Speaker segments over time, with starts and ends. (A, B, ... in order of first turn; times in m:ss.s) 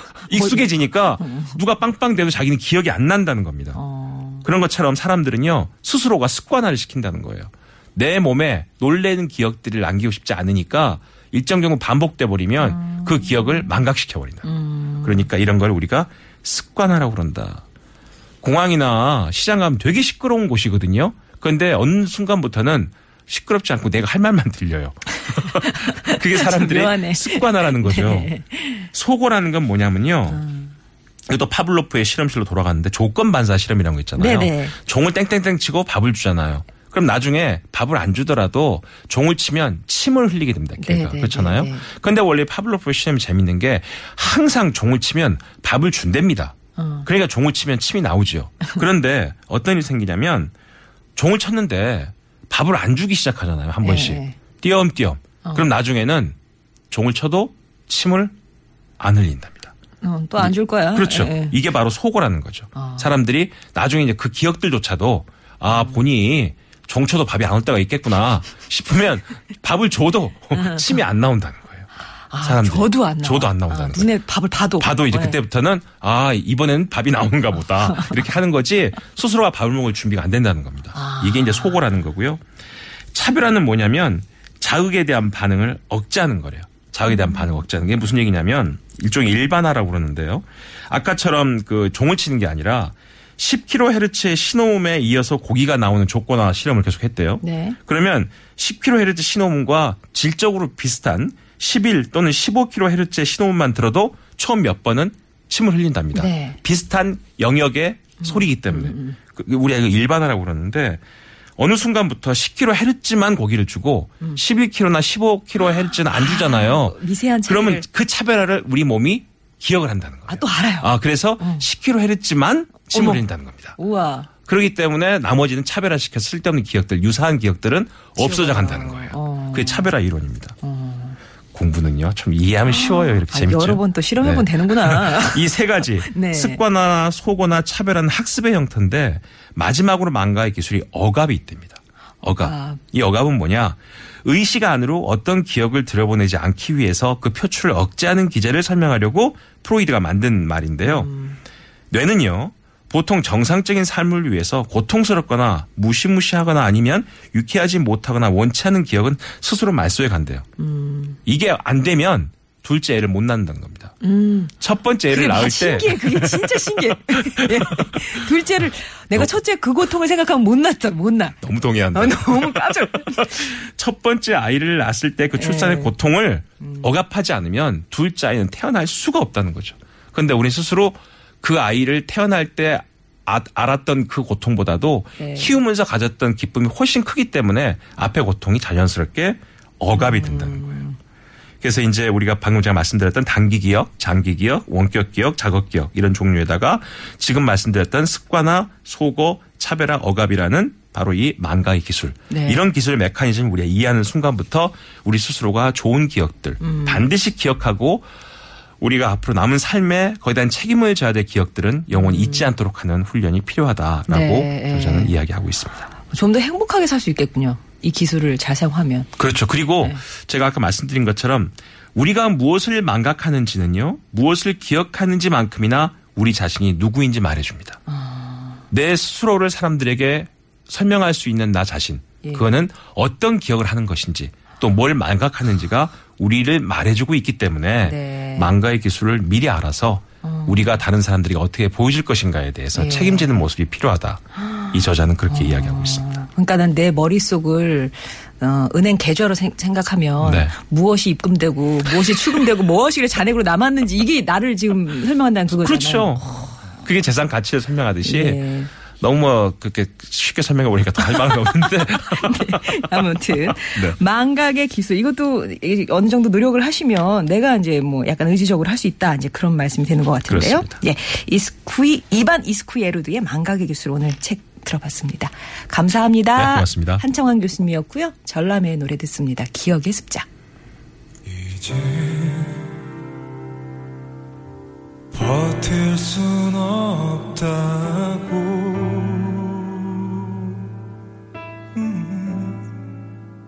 0:00.2-0:03.8 A
0:00.3-0:01.6 B
0:03.7-0:04.4 B
0:04.4-0:14.5 A
0:12.6-0:13.6 B
0:14.4-0:15.2 B
0:15.0-0:17.6 A
0:18.4-0:28.4 A
0:25.3-0:28.9 B
0:28.9-0:30.4 A
0:30.3-0:30.7 B
0:31.3-0:50.5 A
0:34.2-0:34.7 B
0:40.8-0:41.9 B
0:46.8-0:47.1 B
0:51.2-0:56.4 A
0:53.8-0:54.4 B
0:56.9-0:58.3 A
0:59.0-0:59.7 A
1:00.0-1:01.6 B
1:00.4-1:11.9 A
1:02.7-1:03.1 B
1:05.7-1:06.0 B
1:12.3-1:15.4 B
1:12.4-1:14.1 A
1:14.8-1:22.4 A
1:20.9-1:21.8 B
1:23.1-1:51.0 A
1:37.4-1:37.8 B
1:46.1-1:46.6 B
1:48.2-1:49.2 B
1:51.6-2:03.8 A
1:56.1-1:57.8 B
2:00.3-2:01.6 B
2:02.9-2:03.2 B
2:03.8-2:04.3 B
2:04.4-2:10.6 A
2:08.2-2:09.9 B
2:10.6-2:11.2 B
2:11.5-2:31.1 A
2:12.7-2:16.6 B
2:22.4-2:22.8 B
2:30.8-2:31.4 B
2:31.9-2:40.5 A
2:40.6-2:41.2 B
2:41.2-2:44.0 A
2:44.0-2:44.5 B
2:44.6-2:48.0 A
2:45.1-2:51.4 B
2:51.4-3:10.7 A
2:51.9-2:53.6 B
2:55.4-2:55.9 B
2:56.6-2:56.9 B
3:05.2-3:05.5 B
3:09.9-3:11.0 B
3:11.6-3:28.1 A
3:22.3-3:22.6 B
3:26.6-3:27.1 B
3:28.8-3:35.9 A
3:31.9-3:32.5 B
3:34.1-3:35.1 B
3:36.0-3:39.1 B
3:39.2-3:47.8 A
3:47.9-3:48.6 B
3:48.7-4:06.2 A
3:52.2-3:52.5 B
3:57.8-3:58.5 B
4:00.2-4:00.8 B
4:02.7-4:03.3 B
4:04.4-4:04.7 B
4:05.3-4:16.7 B
4:10.2-4:10.5 A
4:15.5-4:18.4 A
4:18.0-4:18.7 B
4:18.9-4:22.9 A
4:21.1-4:40.3 B
4:23.5-4:24.0 A
4:30.3-4:30.8 A
4:36.3-4:37.0 A
4:41.2-4:42.7 C
4:45.1-4:50.4 C
4:51.7-4:52.7 C